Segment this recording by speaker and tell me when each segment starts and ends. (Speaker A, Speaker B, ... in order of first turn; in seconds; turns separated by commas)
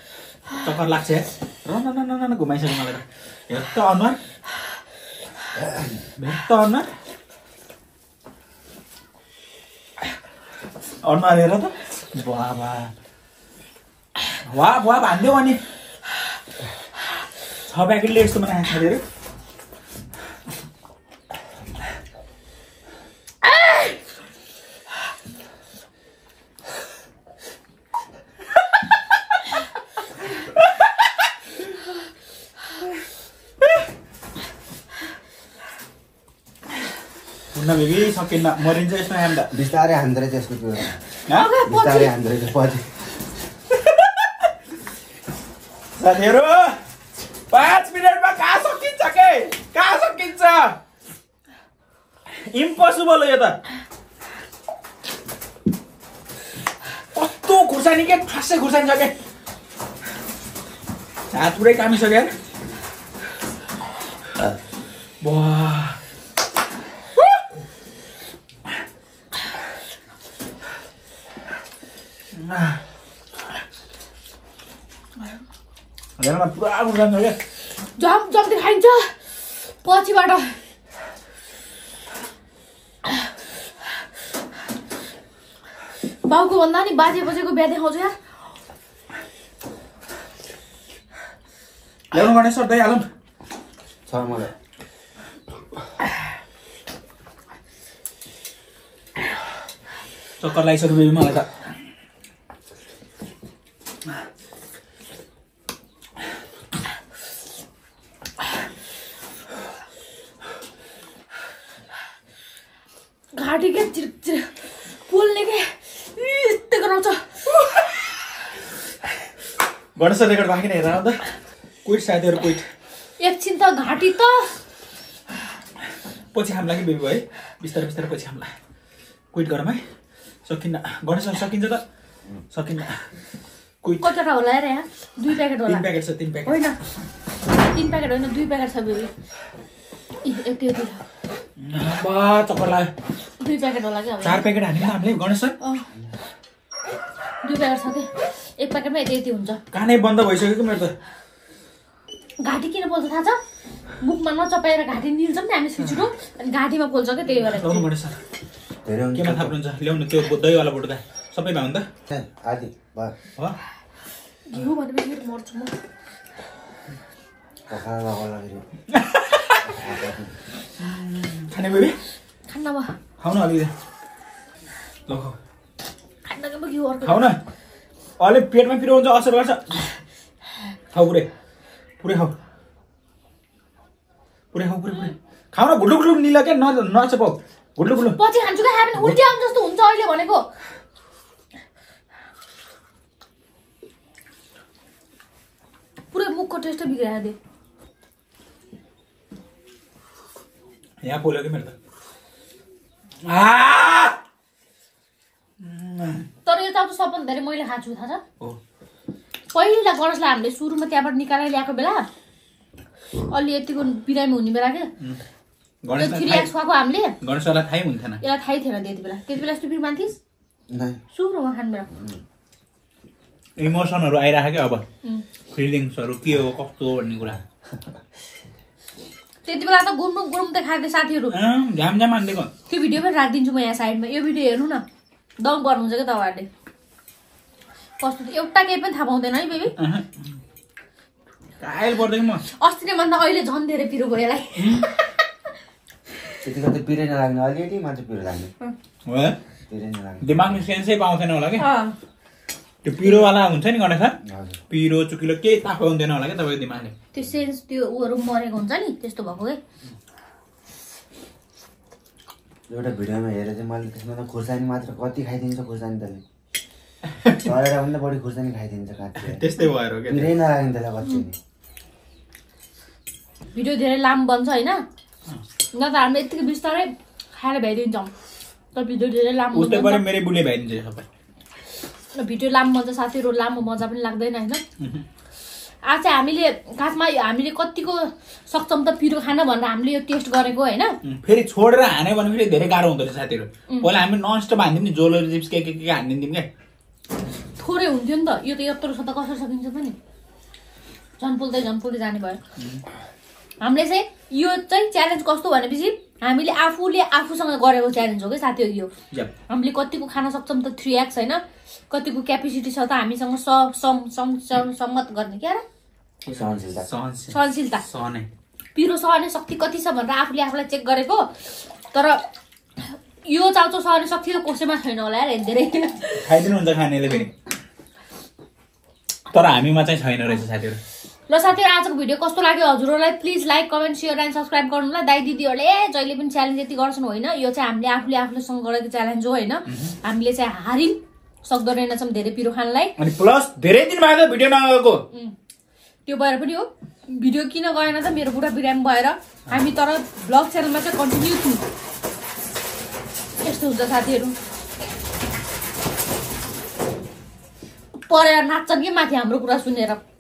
Speaker A: 0.5-4.2, Speaker B: 5.6-5.9, Speaker A: 6.2-6.9, Speaker A: 11.0-12.9, Speaker A: 14.5-15.6, Speaker A: 17.7-19.0, Speaker A: 37.5-39.5, Speaker B: 39.5-41.0, Speaker A: 41.3-41.5, Speaker C: 41.3-42.1, Speaker B: 41.7-42.9, Speaker A: 46.0-46.8, Speaker A: 47.5-50.8, Speaker A: 52.5-53.6, Speaker A: 57.1-59.1, Speaker A: 61.3-62.3, Speaker A: 65.2-66.0, Speaker A: 72.4-72.8, Speaker A: 76.2-77.4, Speaker C: 78.0-79.2, Speaker C: 79.7-80.6, Speaker C: 86.2-88.2, Speaker A: 92.1-93.0, Speaker B: 94.1-94.5, Speaker A: 100.4-101.5, Speaker C: 113.3-117.8, Speaker A: 120.0-121.2, Speaker A: 121.8-122.6, Speaker C: 123.2-124.5, Speaker A: 126.3-128.5, Speaker A: 129.3-129.8, Speaker A: 130.5-131.8, Speaker A: 132.5-133.0, Speaker C: 134.0-135.9, Speaker A: 135.7-136.7, Speaker C: 136.4-136.8, Speaker C: 137.6-139.1, Speaker C: 140.2-141.0, Speaker A: 141.6-142.9, Speaker C: 143.4-144.4, Speaker A: 144.2-145.6, Speaker C: 147.4-149.6, Speaker A: 149.7-150.9, Speaker C: 152.4-153.4, Speaker C: 154.0-157.9, Speaker A: 157.4-158.2, Speaker B: 158.9-159.6, Speaker A: 159.2-161.9, Speaker B: 162.1-163.2, Speaker C: 164.5-165.7, Speaker B: 167.7-168.6, Speaker A: 168.9-169.6, Speaker B: 169.6-170.3, Speaker A: 170.8-172.0, Speaker C: 172.5-172.9, Speaker A: 173.2-173.7, Speaker A: 175.1-175.4, Speaker C: 176.2-177.3, Speaker A: 177.0-177.4, Speaker A: 178.2-179.8, Speaker A: 180.9-181.3, Speaker A: 182.0-182.3, Speaker A: 184.5-188.2, Speaker C: 188.1-190.5, Speaker C: 196.1-197.4, Speaker A: 201.0-201.7, Speaker A: 203.2-204.2, Speaker A: 205.6-206.3, Speaker C: 206.4-208.2, Speaker C: 209.5-212.1, Speaker C: 213.3-214.9, Speaker A: 215.8-216.5, Speaker C: 216.0-217.2, Speaker A: 217.2-218.2, Speaker C: 218.2-220.2, Speaker B: 220.7-221.0, Speaker C: 221.1-221.9, Speaker A: 223.6-224.8, Speaker A: 225.5-227.4, Speaker C: 229.4-231.4, Speaker A: 231.3-232.5, Speaker C: 232.7-234.8, Speaker C: 235.4-236.5, Speaker C: 238.0-239.7, Speaker A: 239.8-240.2, Speaker A: 241.6-242.4, Speaker C: 242.5-245.0, Speaker B: 246.4-248.5, Speaker A: 249.1-249.4, Speaker B: 249.7-250.6, Speaker A: 250.2-251.7, Speaker C: 251.6-251.9, Speaker A: 252.8-254.2, Speaker B: 254.2-254.6, Speaker A: 254.7-256.9, Speaker C: 257.1-259.6, Speaker B: 262.7-266.2, Speaker B: 267.4-269.4, Speaker A: 269.2-270.4, Speaker B: 270.1-271.4, Speaker C: 273.5-274.8, Speaker C: 275.7-278.1, Speaker C: 278.7-280.0, Speaker A: 279.5-281.1, Speaker C: 282.1-284.6, Speaker C: 285.8-291.0, Speaker A: 291.0-296.5, Speaker C: 297.6-300.0, Speaker C: 301.2-302.4, Speaker A: 302.6-302.8, Speaker C: 303.6-308.9, Speaker C: 309.5-315.6, Speaker A: 316.2-318.3, Speaker B: 316.3-316.9, Speaker C: 317.3-317.8, Speaker C: 318.8-321.3, Speaker C: 321.9-322.2, Speaker C: 322.8-326.3, Speaker A: 326.2-327.3, Speaker A: 329.3-330.8, Speaker C: 331.3-342.9, Speaker A: 339.7-339.9, Speaker A: 343.0-345.0, Speaker C: 346.1-351.6, Speaker C: 353.4-354.4, Speaker C: 358.1-360.0